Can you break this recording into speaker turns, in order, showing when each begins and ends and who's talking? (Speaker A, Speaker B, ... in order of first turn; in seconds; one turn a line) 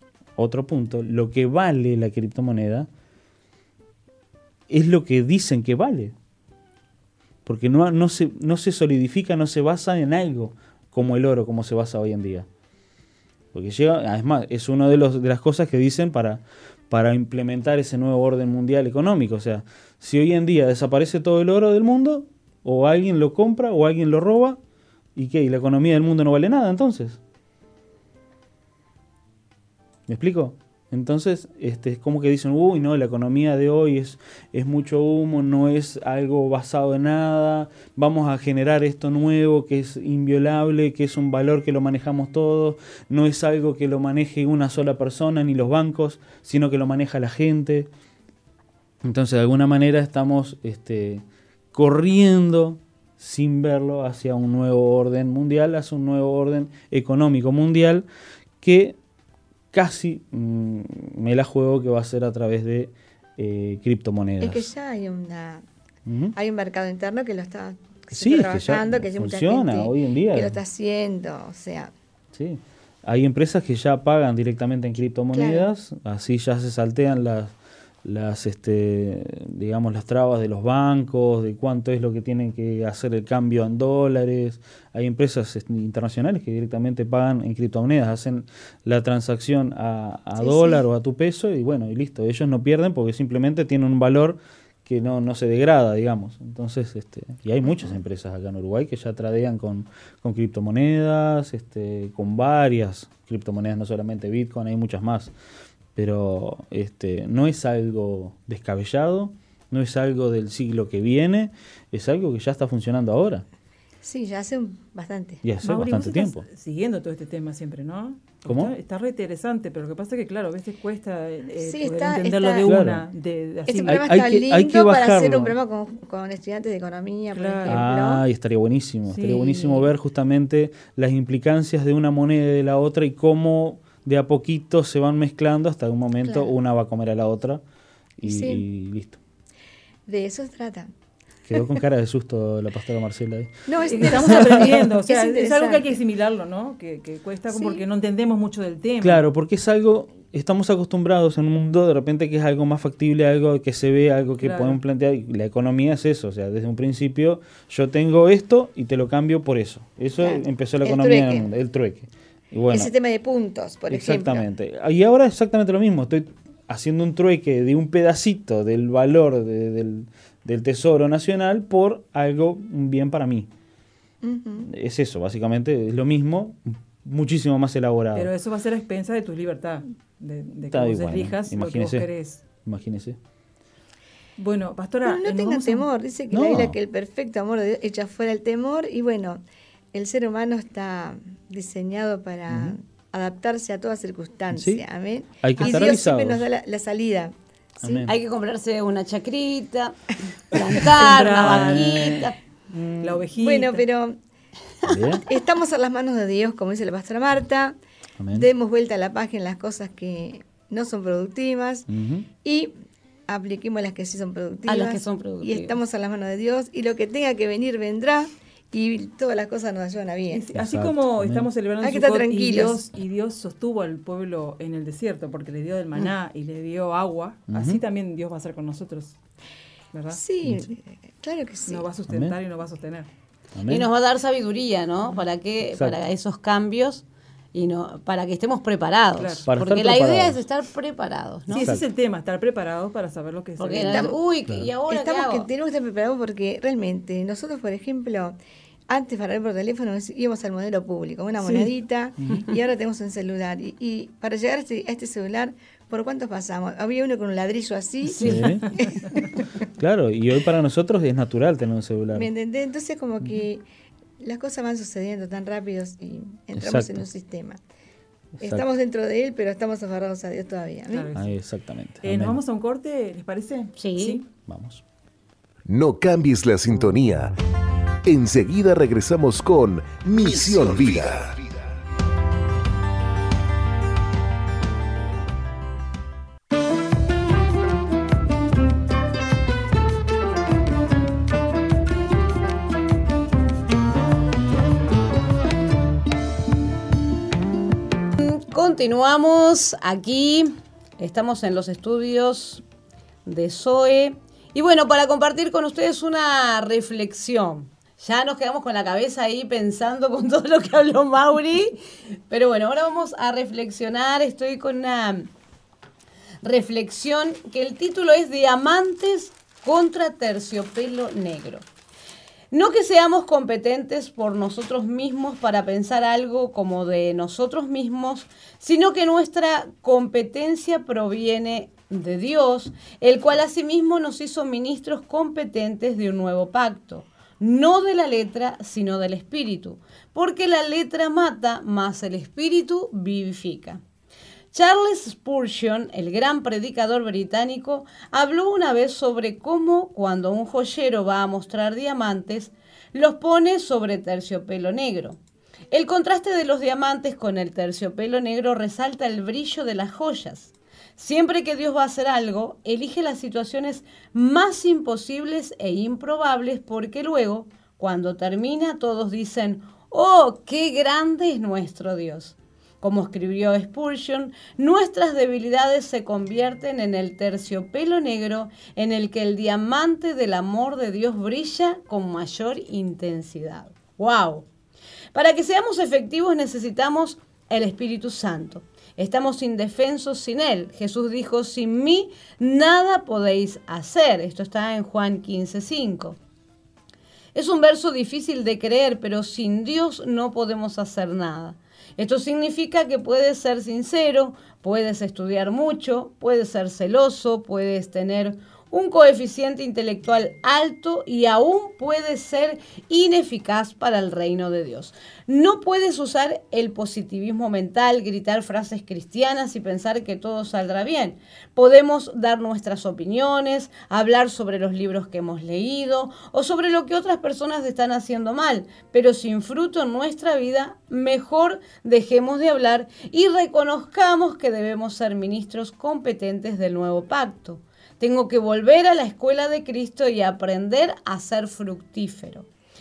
Speaker A: 0.4-2.9
Speaker A: 4.7-6.1
Speaker A: 7.4-12.5
Speaker A: 13.5-24.6
Speaker A: 25.1-27.2
Speaker A: 30.1-47.9
Speaker A: 49.0-58.0
Speaker A: 58.6-59.0
Speaker A: 59.7-64.7
Speaker B: 64.4-65.6
Speaker A: 66.1-66.3
Speaker B: 66.3-71.9
Speaker A: 68.2-70.6
Speaker A: 72.3-77.5
Speaker B: 75.3-75.7
Speaker A: 78.0-105.3
Speaker B: 90.3-90.9
Speaker B: 97.6-98.0
Speaker A: 105.9-113.4
Speaker B: 114.0-115.4
Speaker A: 115.4-116.4
Speaker C: 115.6-124.0
Speaker A: 118.5-118.7
Speaker B: 121.5-122.8
Speaker A: 122.6-123.0
Speaker B: 123.7-128.2
Speaker A: 123.8-125.5
Speaker C: 127.3-127.9
Speaker A: 127.7-137.6
Speaker C: 129.1-129.9
Speaker B: 136.2-136.5
Speaker A: 138.2-139.2
Speaker B: 138.2-138.6
Speaker B: 140.1-140.9
Speaker A: 141.5-144.6
Speaker B: 143.7-146.0
Speaker C: 143.9-149.2
Speaker B: 147.5-147.8
Speaker A: 149.0-162.9
Speaker C: 154.4-154.8
Speaker B: 160.2-161.5
Speaker B: 162.7-164.4
Speaker A: 163.9-173.5
Speaker B: 174.2-174.7
Speaker A: 174.7-178.3
Speaker C: 178.1-182.4
Speaker A: 180.7-182.1
Speaker A: 182.6-183.2
Speaker C: 184.4-185.9
Speaker B: 185.0-189.4
Speaker A: 186.3-186.7
Speaker B: 189.9-198.1
Speaker A: 192.5-192.8
Speaker A: 194.5-194.8
Speaker A: 195.4-196.4
Speaker A: 197.8-198.1
Speaker D: 198.1-202.4
Speaker C: 200.7-202.2
Speaker A: 201.1-202.2
Speaker C: 202.7-203.8
Speaker B: 203.3-204.2
Speaker A: 204.8-205.2
Speaker B: 205.2-207.8
Speaker A: 208.2-208.5
Speaker B: 208.3-211.9
Speaker A: 211.9-212.3
Speaker B: 212.4-212.7
Speaker B: 213.3-220.4
Speaker D: 214.7-215.7
Speaker C: 220.3-229.2
Speaker A: 220.6-221.5
Speaker B: 221.8-222.8
Speaker A: 227.5-227.8
Speaker C: 229.9-230.2
Speaker B: 230.1-231.9
Speaker C: 231.7-233.1
Speaker A: 232.1-232.3
Speaker A: 233.6-233.9
Speaker D: 233.7-241.7
Speaker C: 239.2-239.5
Speaker A: 239.4-240.4
Speaker C: 241.5-244.2
Speaker A: 241.5-241.8
Speaker D: 243.6-245.5
Speaker B: 243.8-244.2
Speaker B: 244.9-248.3
Speaker B: 248.9-259.3
Speaker C: 251.4-251.7
Speaker C: 258.1-258.7
Speaker D: 258.2-258.4
Speaker A: 258.2-258.7
Speaker A: 259.8-262.3
Speaker B: 262.1-263.6
Speaker B: 264.2-267.6
Speaker A: 266.6-267.0
Speaker B: 268.4-271.1
Speaker C: 270.9-271.4
Speaker A: 271.1-272.4
Speaker C: 272.0-274.3
Speaker D: 273.8-274.2
Speaker A: 274.4-274.8
Speaker E: 275.6-277.3
Speaker E: 278.0-281.4
Speaker D: 298.1-302.6
Speaker D: 303.2-311.8
Speaker D: 312.3-315.3
Speaker D: 316.4-321.6
Speaker D: 322.5-343.8
Speaker D: 344.5-355.2
Speaker D: 355.7-384.4
Speaker D: 385.1-396.2
Speaker D: 397.3-442.5